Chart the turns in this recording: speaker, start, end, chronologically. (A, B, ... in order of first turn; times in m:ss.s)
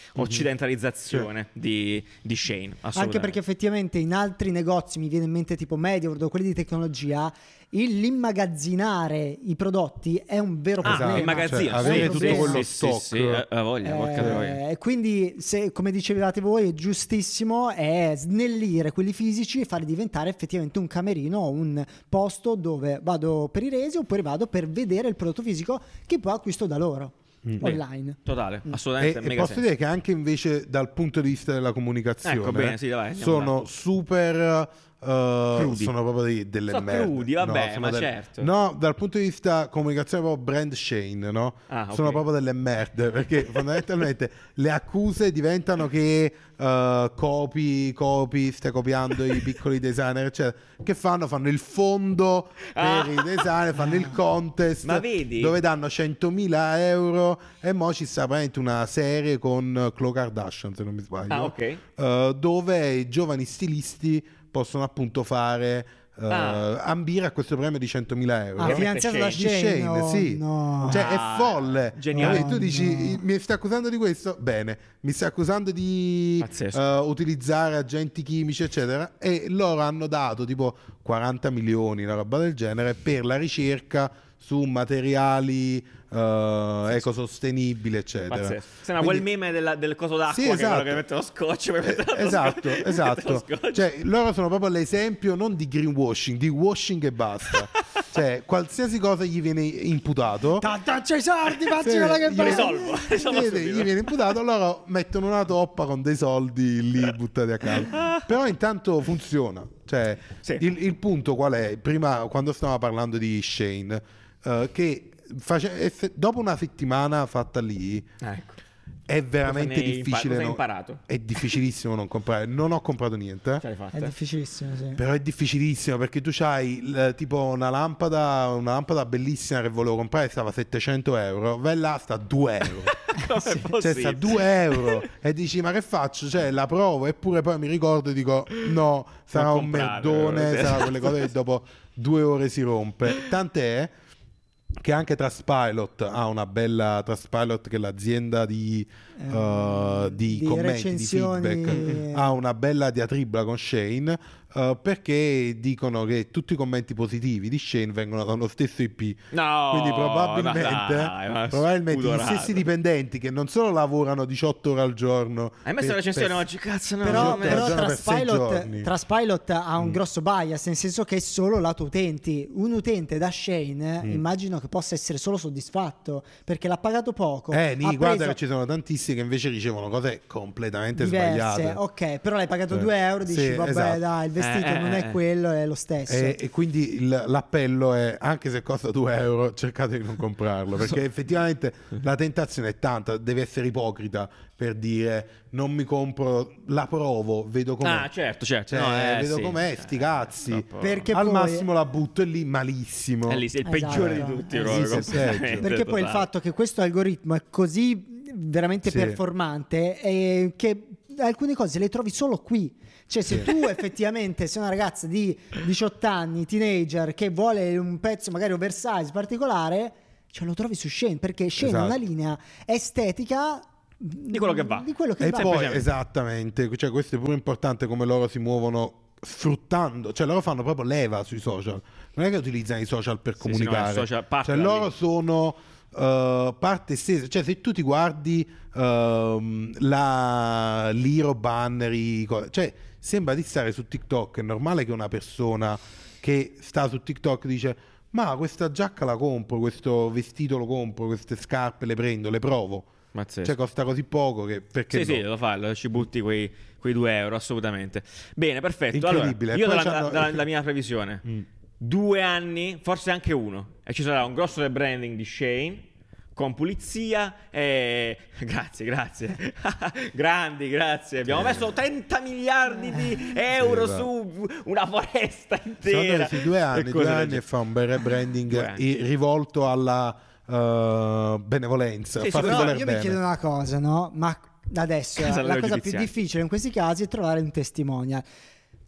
0:00.1-0:03.4 A
0:00.2-0:00.5 B
0:02.9-0:12.6 C
0:10.8-0:13.4 B
0:10.8-0:14.6 A
0:13.8-0:28.2 C
0:14.2-0:14.4 B
0:27.4-0:27.8 B
0:27.6-0:29.7 A
0:29.0-1:29.2 B
0:32.2-0:33.5 A
0:35.5-0:35.9 A
0:36.7-0:38.5 A
0:41.7-0:42.2 A
0:43.5-0:43.8 A
0:52.7-0:53.5 A
0:54.8-0:55.6 A
1:01.3-1:01.8 A
1:06.3-1:06.7 A
1:08.6-1:11.0 C
1:08.6-1:09.4 A
1:10.8-1:12.6 A
1:12.1-1:13.2 C
1:16.4-1:16.8 A
1:28.3-1:33.8 A
1:30.3-1:31.0 B
1:31.8-1:40.7 B
1:37.5-1:37.8 A
1:40.6-1:43.3 C
1:41.4-1:44.2 A
1:41.8-1:58.1 B
1:47.6-1:48.2 A
1:58.2-1:58.6 A
1:59.1-2:03.6 B
1:59.4-2:01.0 A
2:03.6-2:04.1 A
2:03.9-2:05.0 C
2:05.0-2:12.9 B
2:12.6-2:15.0 A
2:13.8-2:23.9 B
2:19.3-2:21.3 A
2:24.8-2:46.5 B
2:29.2-2:32.4 C
2:31.7-2:32.0 A
2:39.3-2:42.6 A
2:45.6-2:47.8 A
2:47.0-2:58.4 C
2:47.0-2:48.9 B
2:57.5-3:01.8 B
3:00.9-3:06.4 C
3:02.7-3:04.0 B
3:04.4-3:05.2 A
3:06.1-3:18.1 B
3:17.8-3:21.1 A
3:18.7-3:25.7 B
3:20.8-3:21.7 C
3:23.3-3:26.3 A
3:23.6-3:45.8 C
3:28.8-3:29.2 B
3:33.2-3:33.5 B
3:41.6-3:42.0 B
3:44.3-3:45.9 A
3:45.2-4:12.9 B
3:53.4-3:54.9 A
4:13.1-4:13.5 A
4:13.4-4:15.2 B
4:14.9-4:21.2 A
4:18.9-4:20.4 B
4:21.8-4:37.4 A
4:31.3-4:31.7 B
4:33.5-4:34.1 B
4:35.8-4:43.2 B
4:38.5-4:38.8 A
4:42.2-4:42.8 A
4:42.3-4:48.2 C
4:45.2-4:46.1 A